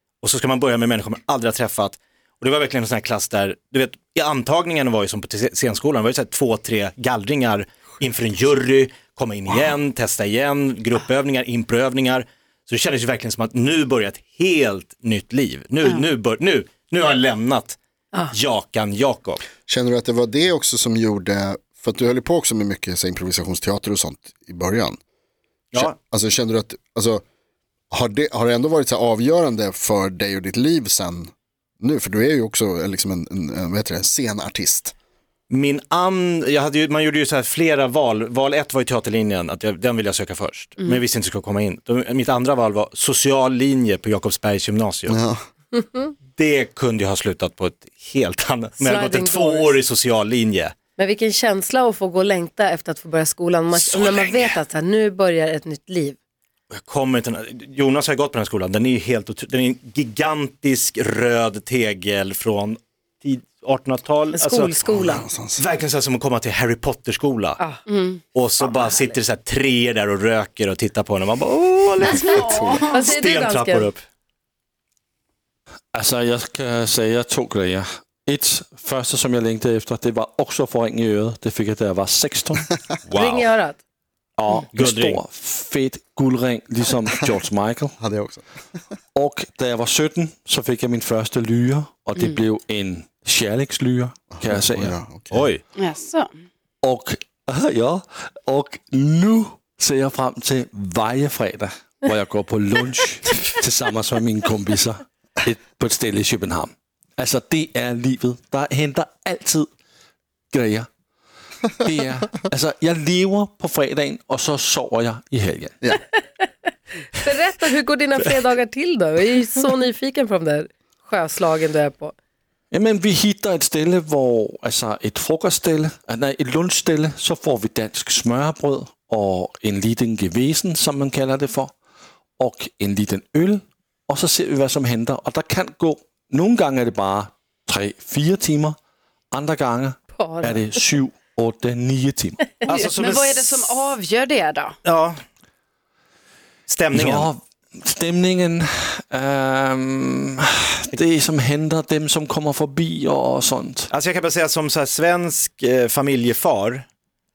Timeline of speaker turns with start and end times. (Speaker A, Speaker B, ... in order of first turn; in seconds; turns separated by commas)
Speaker A: 0.2-17.8, Speaker A: 18.3-19.4, Speaker B: 19.7-25.0, Speaker A: 25.7-26.0, Speaker B: 25.7-27.2, Speaker B: 27.9-34.9, Speaker A: 35.5-45.2, Speaker B: 45.1-45.4, Speaker C: 45.8-46.1, Speaker A: 46.3-50.7, Speaker C: 48.8-49.8, Speaker C: 51.0-56.2, Speaker A: 53.8-54.5, Speaker A: 56.7-64.7, Speaker C: 64.3-65.2, Speaker B: 64.8-65.6, Speaker A: 65.6-67.6, Speaker D: 67.9-68.7, Speaker A: 68.3-74.0, Speaker B: 72.0-72.9, Speaker D: 72.1-73.0, Speaker C: 72.9-73.9, Speaker E: 75.9-83.3, Speaker A: 83.1-83.4, Speaker C: 83.1-83.8, Speaker E: 84.4-88.0, Speaker A: 84.7-85.2, Speaker B: 88.0-88.5, Speaker E: 89.2-95.0, Speaker B: 94.3-95.5, Speaker A: 95.3-95.6, Speaker D: 95.8-96.3, Speaker E: 96.8-109.7, Speaker E: 110.5-110.9, Speaker E: 111.8-115.8, Speaker C: 117.1-122.2, Speaker E: 122.7-131.7, Speaker E: 132.4-138.8, Speaker E: 139.3-142.8, Speaker C: 140.1-140.8, Speaker A: 142.6-144.0, Speaker D: 142.9-144.8, Speaker A: 144.8-145.2, Speaker A: 146.7-147.3, Speaker E: 146.9-153.9, Speaker A: 153.9-156.9